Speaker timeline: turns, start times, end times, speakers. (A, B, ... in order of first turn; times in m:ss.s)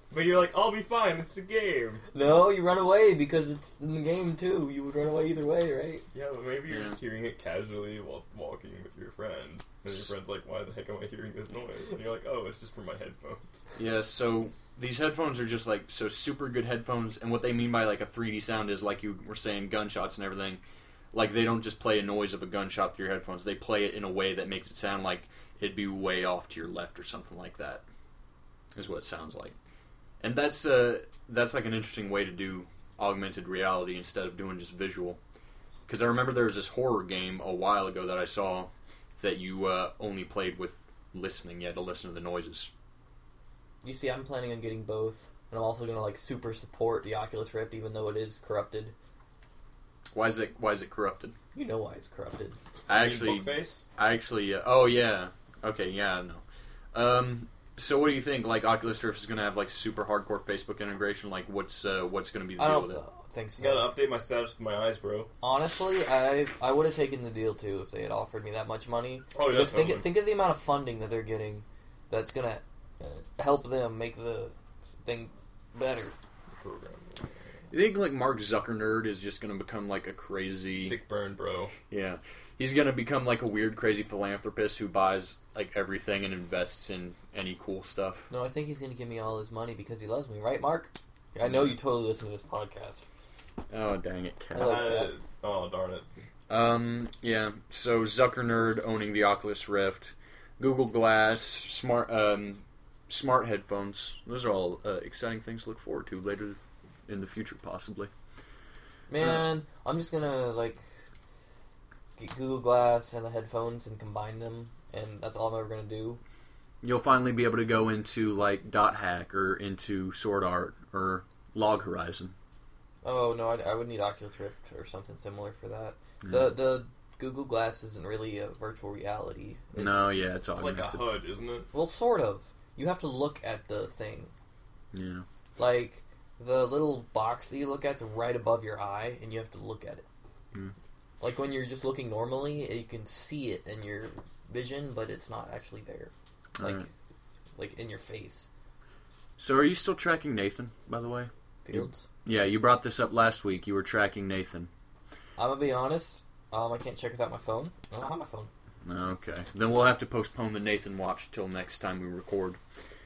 0:00.1-0:02.0 A
0:02.1-0:06.1 B
0:06.1-0:13.6 A
0:06.7-0:07.0 C
0:13.7-0:20.6 C
0:21.1-0:27.8 C
0:28.7-0:29.5 C
0:30.2-0:35.2 C
0:35.9-0:42.7 C
0:43.8-0:48.9 B
0:50.1-0:51.3 C
0:51.5-0:52.6 B
0:52.9-1:03.0 C
0:52.9-0:53.8 A
1:02.6-1:03.9 B
1:03.6-1:05.3 A
1:05.4-1:16.1 B
1:09.3-1:10.1 A
1:16.6-1:17.3 A
1:17.7-1:21.0 C
1:20.7-1:21.7 A
1:21.9-1:28.3 C
1:28.3-1:33.0 B
1:31.4-1:31.7 C
1:33.7-1:34.9 C
1:34.5-1:35.1 B
1:34.5-1:36.1 A
1:36.5-1:48.1 C
1:49.1-1:50.8 B
1:49.2-1:49.4 C
1:52.2-1:56.2 B
1:56.8-2:02.3 C
2:03.0-2:10.2 B
2:06.2-2:06.6 C
2:09.8-2:11.0 C
2:10.5-2:11.7 A
2:11.7-2:14.3 B
2:14.9-2:15.2 C
2:15.6-2:20.0 B
2:21.2-2:26.9 B
2:26.6-2:26.9 C
2:27.6-2:28.5 B
2:29.4-2:34.7 C
2:31.6-2:32.0 B
2:35.4-2:38.5 B
2:38.8-2:42.6 C